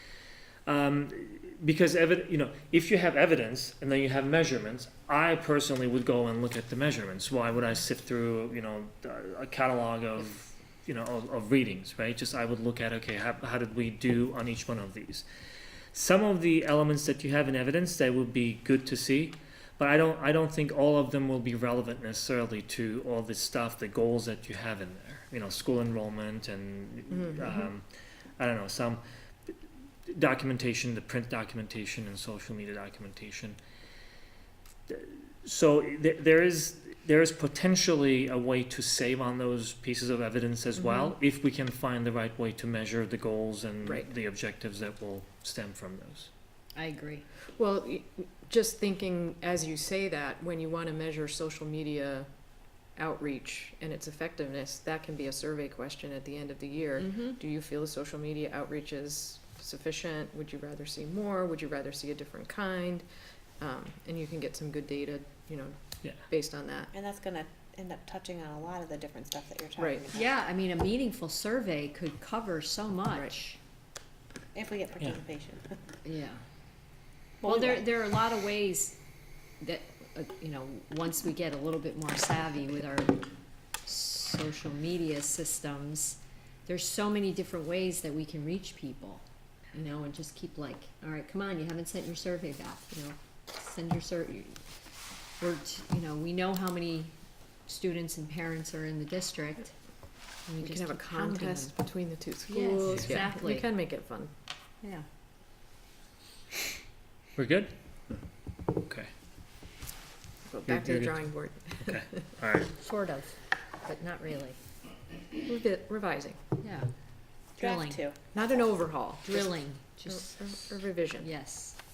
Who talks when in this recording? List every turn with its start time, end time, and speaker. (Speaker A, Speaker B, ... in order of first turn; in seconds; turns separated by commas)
Speaker A: 0.7-15.2, Speaker A: 15.9-27.9, Speaker B: 27.2-27.4, Speaker A: 28.4-29.0, Speaker A: 30.1-33.6, Speaker A: 34.9-46.3, Speaker B: 40.8-41.1, Speaker B: 43.8-44.1, Speaker C: 46.7-47.2, Speaker B: 47.6-52.3, Speaker B: 52.9-63.0, Speaker C: 57.0-57.3, Speaker B: 63.6-65.8, Speaker B: 66.3-66.9, Speaker D: 66.9-70.3, Speaker C: 70.1-73.6, Speaker D: 74.5-75.8, Speaker C: 76.0-76.4, Speaker D: 77.4-77.8, Speaker C: 77.4-79.0, Speaker C: 79.6-83.2, Speaker C: 83.8-94.6, Speaker C: 95.4-97.1, Speaker C: 97.7-99.7, Speaker C: 100.5-101.7, Speaker B: 100.6-104.3, Speaker C: 102.5-103.7, Speaker A: 102.9-103.2, Speaker A: 107.3-107.7, Speaker A: 108.8-109.1, Speaker B: 110.5-112.2, Speaker A: 110.7-112.7, Speaker C: 112.7-114.6, Speaker B: 115.4-116.4, Speaker C: 116.6-116.9, Speaker C: 117.5-118.0, Speaker D: 117.6-118.7, Speaker B: 118.3-119.2, Speaker C: 119.2-120.4, Speaker B: 120.1-121.3, Speaker C: 121.2-121.8